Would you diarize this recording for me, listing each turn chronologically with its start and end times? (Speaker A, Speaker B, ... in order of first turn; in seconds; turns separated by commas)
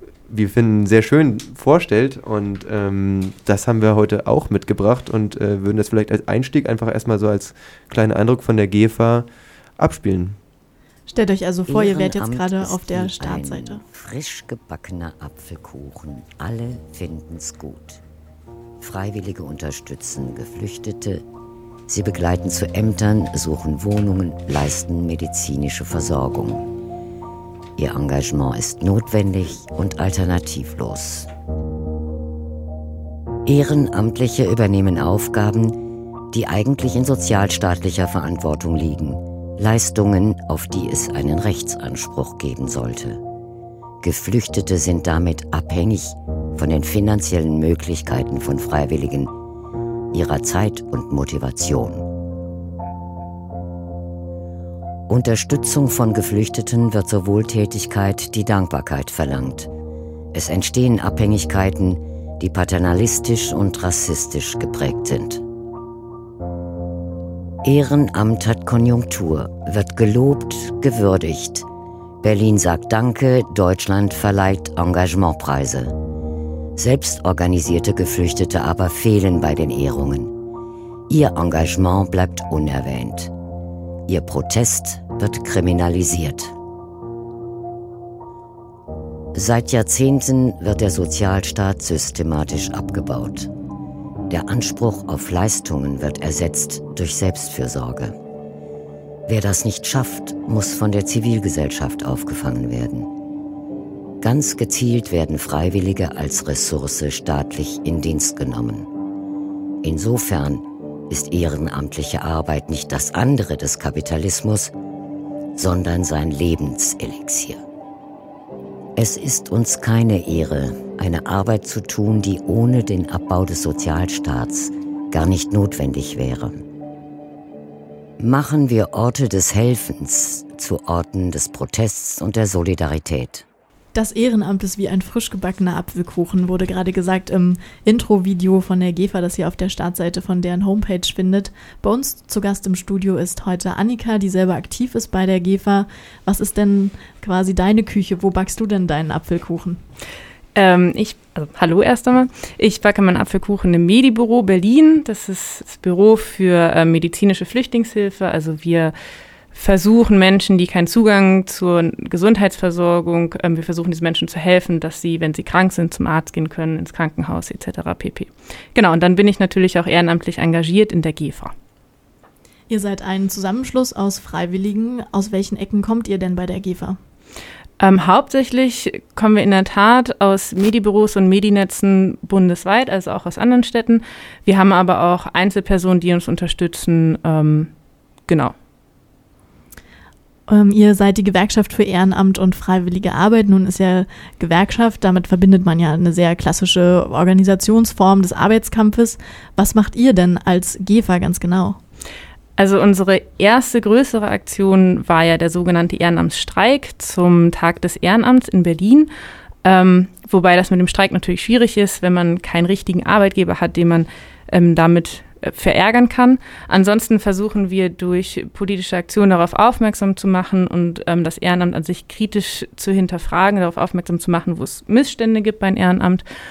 Speaker A: 0.3-9.2, Speaker A: 9.8-10.4, Speaker B: 11.1-13.8, Speaker C: 11.7-18.0, Speaker C: 18.8-21.2, Speaker C: 21.9-26.7, Speaker C: 27.8-31.3, Speaker C: 33.5-35.8, Speaker C: 36.3-43.2, Speaker C: 44.0-49.3, Speaker C: 50.1-52.1, Speaker C: 55.1-59.7, Speaker C: 60.3-65.4, Speaker C: 67.6-71.7, Speaker C: 72.2-75.9, Speaker C: 76.8-80.3, Speaker C: 81.1-83.3, Speaker C: 84.1-86.5, Speaker C: 89.3-93.5, Speaker C: 94.3-98.1, Speaker C: 99.2-103.1, Speaker C: 104.2-108.9, Speaker C: 109.8-114.7, Speaker C: 115.5-117.6, Speaker C: 119.0-126.6, Speaker C: 128.2-133.4, Speaker B: 133.9-149.8, Speaker D: 150.5-158.9, Speaker D: 159.5-171.5, Speaker B: 172.7-177.0, Speaker D: 177.8-187.7, Speaker D: 188.3-188.5, Speaker B: 190.5-201.8, Speaker D: 202.6-209.1, Speaker D: 209.6-226.2